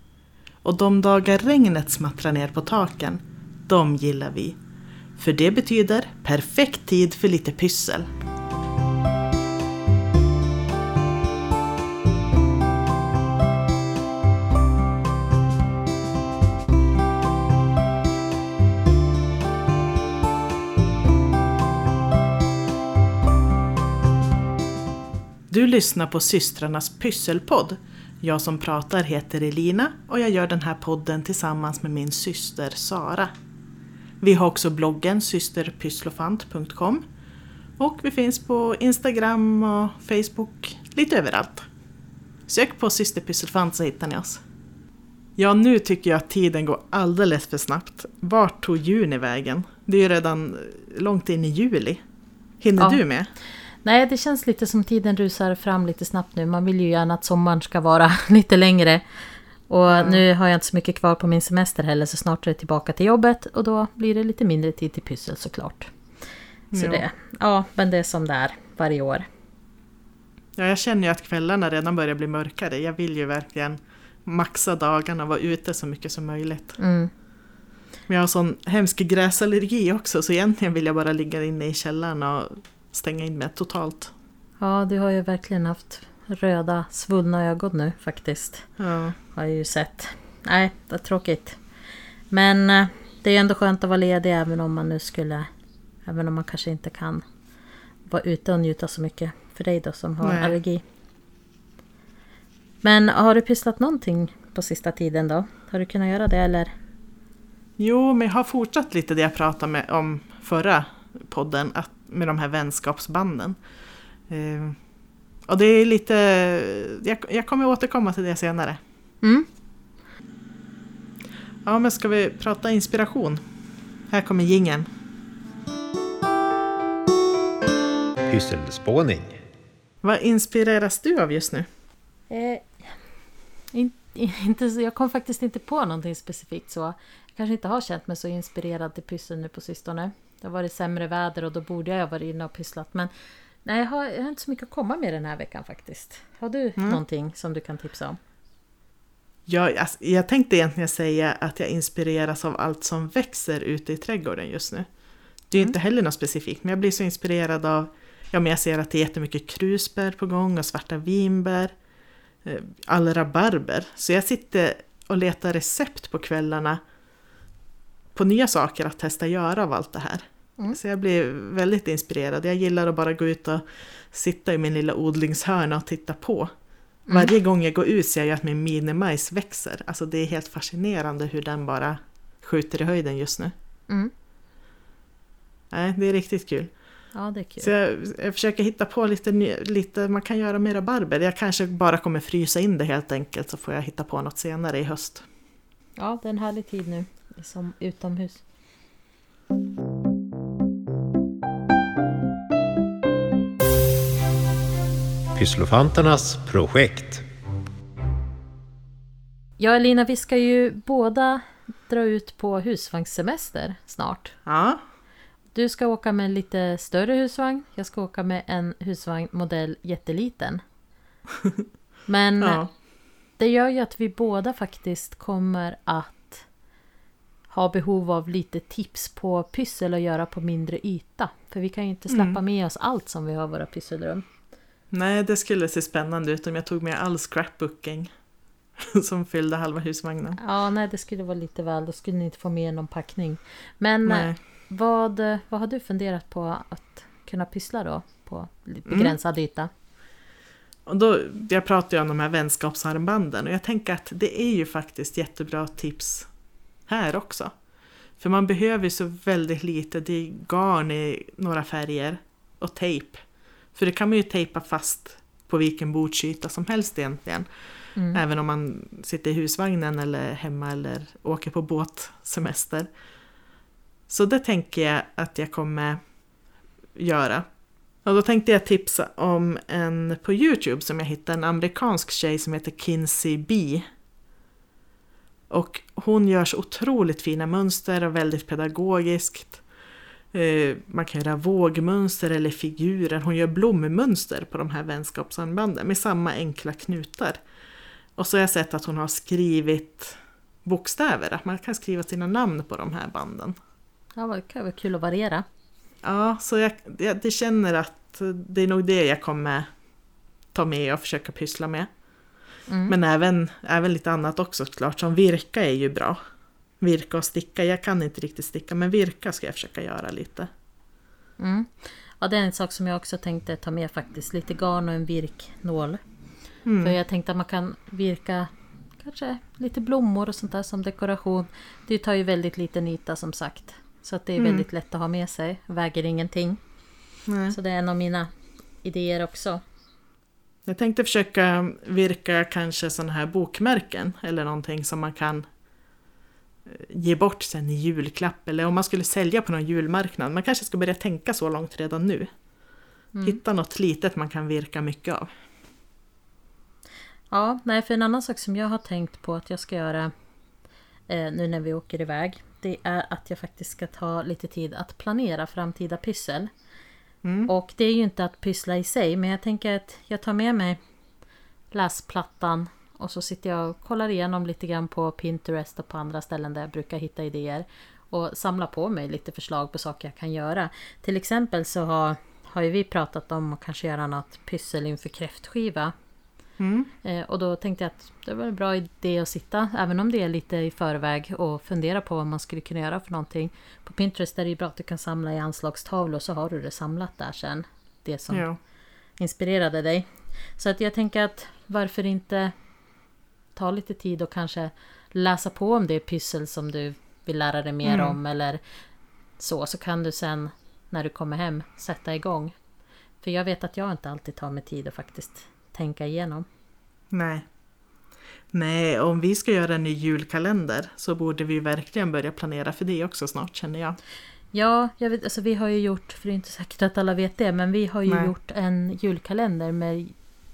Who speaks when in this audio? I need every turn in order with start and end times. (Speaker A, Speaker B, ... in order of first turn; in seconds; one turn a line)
Speaker A: 0.6-4.6
Speaker A: 5.2-8.1
Speaker A: 25.5-33.3
Speaker A: 34.2-37.0
Speaker A: 37.8-41.7
Speaker A: 42.5-44.4
Speaker A: 45.4-52.0
Speaker A: 52.6-53.3
Speaker B: 53.8-59.0
Speaker B: 59.7-65.9
Speaker A: 59.9-60.2
Speaker A: 66.7-67.0
Speaker B: 66.7-69.3
Speaker A: 70.6-76.8
Speaker B: 76.8-77.1
Speaker A: 78.1-84.1
Speaker B: 84.6-88.7
Speaker A: 88.8-89.2
Speaker B: 89.3-91.6
Speaker B: 92.3-95.5
Speaker B: 96.0-97.2
Speaker B: 98.1-100.8
Speaker A: 100.2-100.6
Speaker B: 102.8-106.7
Speaker A: 107.8-113.6
Speaker A: 114.3-114.8
Speaker A: 115.5-118.8
Speaker B: 119.2-119.5
Speaker A: 121.6-123.4
Speaker A: 124.1-124.9
Speaker C: 128.3-129.4
Speaker A: 130.0-131.7
Speaker B: 132.3-132.9
Speaker B: 133.7-143.1
Speaker B: 143.6-148.2
Speaker A: 149.5-154.9
Speaker A: 155.5-161.7
Speaker A: 162.4-166.8
Speaker A: 168.1-176.5
Speaker A: 177.1-183.5
Speaker A: 185.7-186.7
Speaker B: 187.1-187.7
Speaker A: 187.6-195.2
Speaker B: 196.0-198.4
Speaker C: 205.3-207.2
Speaker B: 209.6-214.3
Speaker A: 214.4-214.8
Speaker B: 215.5-220.6
Speaker B: 222.1-222.7
Speaker A: 222.4-222.7
Speaker B: 223.4-226.4
Speaker B: 227.5-234.2
Speaker A: 232.1-232.4
Speaker A: 234.9-238.1
Speaker A: 238.8-240.4
Speaker B: 240.4-249.7
Speaker A: 244.0-244.4
Speaker A: 248.9-249.1
Speaker A: 250.9-256.3
Speaker A: 256.9-257.5
Speaker A: 258.2-267.5
Speaker B: 267.9-268.2
Speaker A: 268.1-272.9
Speaker A: 274.1-276.0
Speaker A: 276.9-277.5
Speaker A: 278.0-283.9
Speaker A: 285.5-289.6
Speaker A: 290.3-297.4
Speaker A: 298.2-303.6
Speaker B: 304.1-305.4
Speaker A: 306.0-309.7
Speaker A: 310.5-311.9
Speaker B: 312.7-312.9
Speaker A: 312.9-316.2
Speaker A: 316.8-320.5
Speaker B: 321.4-326.0
Speaker A: 326.6-326.9
Speaker B: 326.8-336.6
Speaker A: 334.4-334.6
Speaker A: 337.3-337.6
Speaker B: 337.5-338.3
Speaker B: 338.8-339.6
Speaker A: 340.6-345.5
Speaker A: 346.6-352.3
Speaker B: 353.1-353.4
Speaker A: 353.2-355.3
Speaker B: 357.3-360.1
Speaker B: 361.1-366.5
Speaker A: 367.2-367.5
Speaker B: 367.5-370.8
Speaker B: 371.7-385.9
Speaker A: 386.6-386.9
Speaker B: 387.0-398.5
Speaker A: 398.3-398.6
Speaker B: 399.2-402.5
Speaker B: 403.6-408.6
Speaker A: 407.8-408.2
Speaker B: 409.4-412.5
Speaker B: 413.2-416.4
Speaker A: 417.1-417.4
Speaker A: 418.5-424.0
Speaker B: 424.5-430.1
Speaker A: 428.1-428.3